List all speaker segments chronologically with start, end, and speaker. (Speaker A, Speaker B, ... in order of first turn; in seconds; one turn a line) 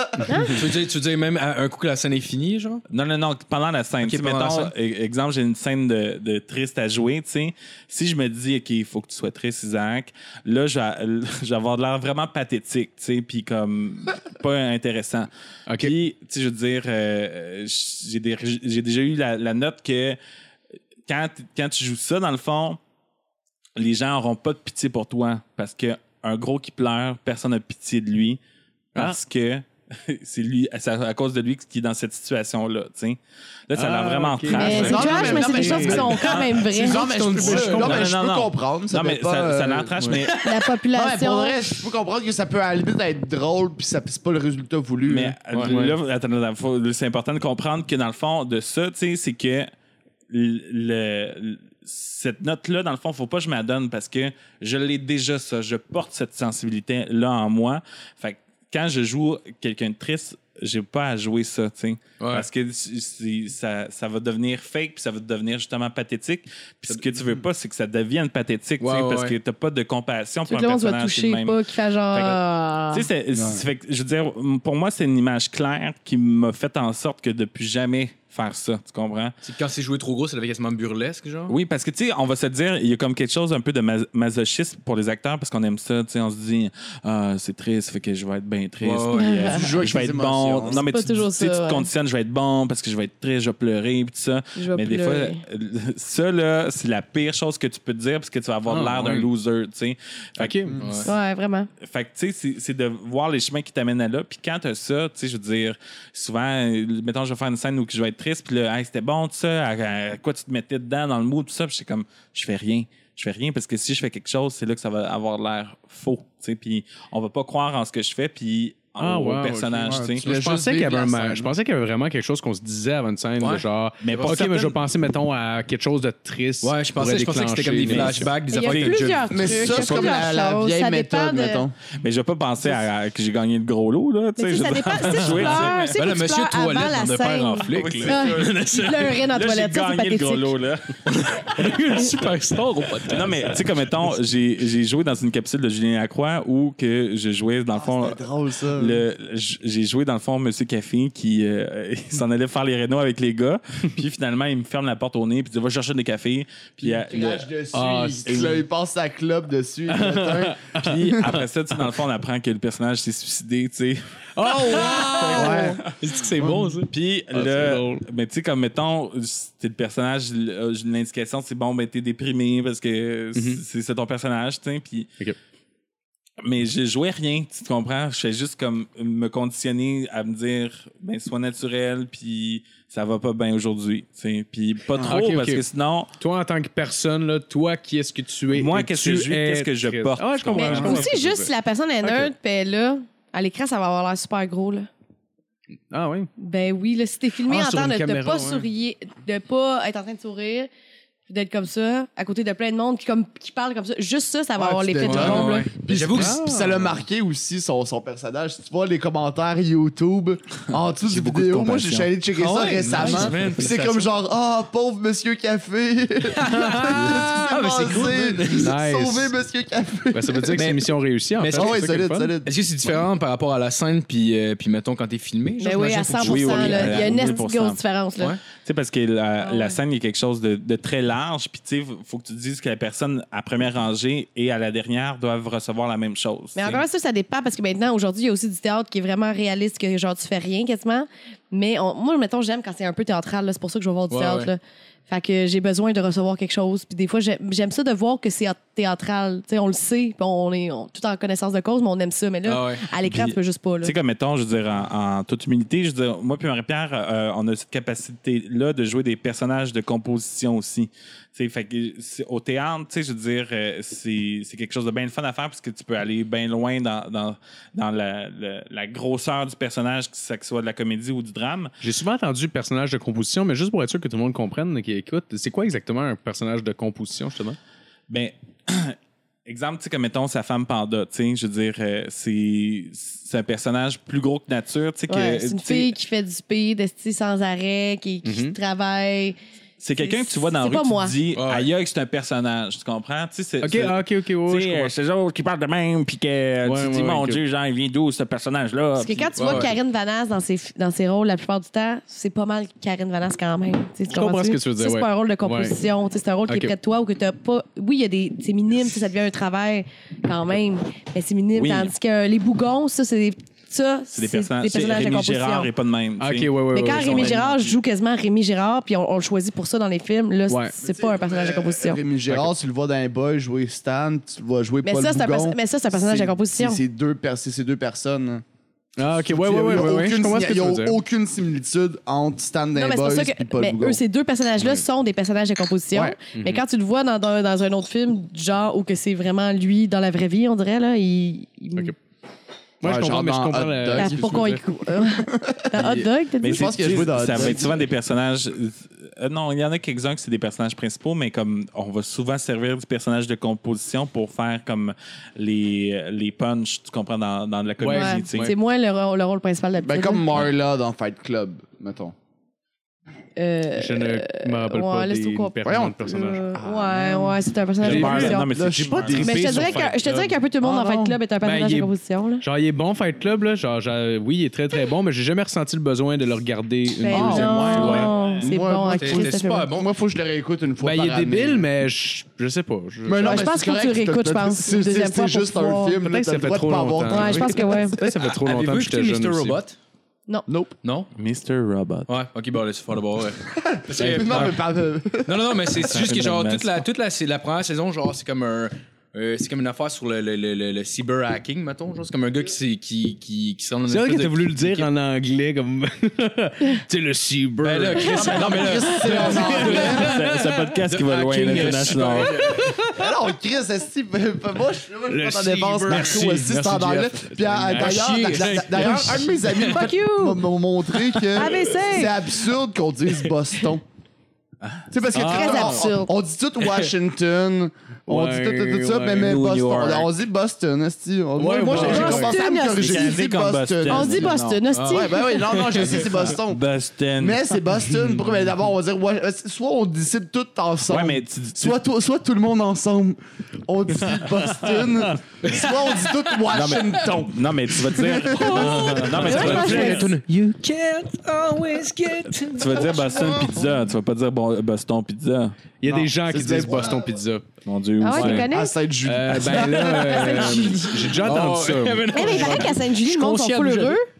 Speaker A: 0.3-0.6
Speaker B: 0.5-2.8
Speaker C: 2.9-20.2
Speaker B: 4.0-4.7
Speaker D: 15.7-15.9
Speaker C: 21.1-22.8
Speaker C: 23.8-28.4
Speaker C: 28.9-33.2
Speaker C: 33.7-36.6
Speaker D: 33.7-36.0
Speaker A: 34.6-37.1
Speaker E: 34.6-39.9
Speaker B: 36.8-38.1
Speaker C: 37.3-40.5
Speaker A: 40.4-41.5
Speaker E: 40.9-45.4
Speaker C: 45.1-49.7
Speaker D: 45.6-46.0
Speaker C: 50.3-71.6
Speaker B: 62.2-62.5
Speaker B: 68.8-69.3
Speaker A: 70.5-73.1
Speaker C: 72.1-79.3
Speaker E: 73.3-73.6
Speaker B: 79.4-81.5
Speaker C: 81.5-101.1
Speaker B: 88.8-89.7
Speaker A: 89.2-89.6
Speaker E: 89.5-90.8
Speaker A: 90.7-91.9
Speaker A: 94.6-95.4
Speaker D: 98.7-99.3
Speaker D: 100.4-100.8
Speaker E: 100.7-101.0
Speaker B: 100.8-101.1
Speaker A: 101.0-101.7
Speaker C: 101.8-120.2
Speaker D: 119.0-128.3
Speaker E: 119.8-121.5
Speaker B: 123.4-124.3
Speaker C: 124.0-124.8
Speaker B: 126.6-129.1
Speaker C: 127.9-130.2
Speaker A: 128.5-131.6
Speaker E: 129.3-131.7
Speaker C: 131.9-136.0
Speaker A: 134.4-140.5
Speaker B: 135.1-139.2
Speaker C: 137.7-138.7
Speaker C: 139.3-141.8
Speaker B: 141.1-143.8
Speaker C: 143.0-148.2
Speaker E: 147.8-149.0
Speaker C: 148.7-157.5
Speaker E: 156.8-161.2
Speaker D: 157.7-158.4
Speaker C: 158.2-158.6
Speaker D: 159.9-161.4
Speaker C: 160.7-166.1
Speaker D: 164.3-165.8
Speaker B: 164.9-166.9
Speaker E: 165.3-165.8
Speaker D: 166.4-166.8
Speaker C: 166.9-175.1
Speaker D: 167.3-168.0
Speaker D: 173.3-173.6
Speaker C: 176.4-186.1
Speaker D: 185.0-185.6
Speaker D: 186.2-191.5
Speaker C: 188.5-191.2
Speaker A: 190.5-194.9
Speaker D: 195.9-196.3
Speaker A: 196.4-200.7
Speaker D: 197.5-198.7
Speaker A: 201.3-205.8
Speaker E: 204.6-220.6
Speaker B: 205.0-206.4
Speaker D: 206.1-206.8
Speaker C: 211.0-212.0
Speaker D: 211.5-213.4
Speaker B: 212.4-214.1
Speaker B: 216.3-218.7
Speaker D: 218.6-219.3
Speaker D: 220.1-222.3
Speaker B: 220.6-221.8
Speaker E: 221.5-222.6
Speaker B: 222.4-227.3
Speaker A: 225.6-228.4
Speaker C: 226.2-227.8
Speaker C: 228.5-236.8
Speaker A: 229.4-229.8
Speaker A: 236.5-253.9
Speaker B: 244.1-244.5
Speaker B: 252.4-252.8
Speaker C: 253.0-271.7
Speaker D: 271.8-277.6
Speaker C: 278.1-285.9
Speaker A: 285.1-289.4
Speaker D: 288.2-288.6
Speaker C: 289.8-299.7
Speaker A: 290.0-291.2
Speaker B: 291.3-291.7
Speaker D: 293.6-294.9
Speaker D: 296.6-297.4
Speaker A: 299.0-315.7
Speaker B: 299.4-299.7
Speaker D: 304.1-305.8
Speaker D: 306.5-306.7
Speaker C: 311.5-311.9
Speaker C: 314.1-317.6
Speaker D: 316.2-317.7
Speaker A: 316.7-322.0
Speaker D: 320.5-320.7
Speaker E: 320.8-328.4
Speaker A: 324.8-326.8
Speaker D: 329.0-331.0
Speaker E: 329.2-334.0
Speaker A: 332.8-341.9
Speaker E: 335.9-336.2
Speaker D: 336.3-336.6
Speaker D: 342.8-344.6
Speaker E: 342.8-347.9
Speaker A: 343.9-347.0
Speaker C: 346.4-358.5
Speaker D: 357.8-358.5
Speaker A: 357.9-360.5
Speaker E: 359.8-362.1
Speaker A: 363.4-368.5
Speaker D: 363.7-366.4
Speaker E: 365.6-367.4
Speaker C: 367.8-369.7
Speaker D: 367.8-370.3
Speaker E: 368.0-370.0
Speaker A: 369.2-372.4
Speaker E: 370.6-371.2
Speaker D: 371.4-378.1
Speaker A: 377.0-379.7
Speaker E: 377.1-381.7
Speaker C: 377.1-378.5
Speaker B: 378.9-379.9
Speaker D: 380.8-383.5
Speaker E: 383.1-388.1
Speaker A: 383.2-386.0
Speaker D: 386.0-389.6
Speaker A: 387.1-388.0
Speaker B: 388.1-389.8
Speaker E: 390.5-390.7
Speaker B: 390.8-391.1
Speaker C: 391.1-392.1
Speaker B: 392.1-394.5
Speaker E: 393.5-395.8
Speaker C: 394.1-394.6
Speaker B: 395.2-404.9
Speaker C: 395.8-396.8
Speaker D: 403.9-410.6
Speaker B: 407.6-412.8
Speaker E: 408.1-410.1
Speaker C: 410.0-412.3
Speaker D: 412.4-413.1
Speaker E: 412.9-423.8
Speaker D: 415.1-416.4
Speaker B: 415.9-419.6
Speaker D: 417.3-419.3
Speaker A: 419.6-420.4
Speaker A: 421.3-422.1
Speaker E: 424.9-434.3
Speaker D: 425.1-425.9
Speaker A: 425.1-426.1
Speaker D: 428.1-429.4
Speaker C: 429.1-430.1
Speaker D: 431.4-432.3
Speaker A: 431.7-433.2
Speaker C: 432.7-434.6
Speaker A: 433.9-436.0
Speaker B: 434.7-436.3
Speaker E: 434.8-436.6
Speaker C: 436.1-437.4
Speaker E: 437.2-447.4
Speaker C: 440.9-441.8
Speaker B: 445.4-447.1
Speaker C: 446.5-450.1
Speaker E: 447.9-449.9
Speaker D: 448.5-450.5
Speaker B: 448.6-453.0
Speaker A: 449.2-450.1
Speaker C: 452.5-455.5
Speaker E: 452.8-453.8
Speaker D: 455.8-457.5
Speaker E: 455.9-457.1
Speaker C: 457.6-458.5
Speaker A: 458.0-458.7
Speaker D: 458.1-458.4
Speaker E: 458.2-460.8
Speaker D: 459.0-462.7
Speaker A: 459.8-461.0
Speaker B: 461.1-464.0
Speaker A: 462.1-464.0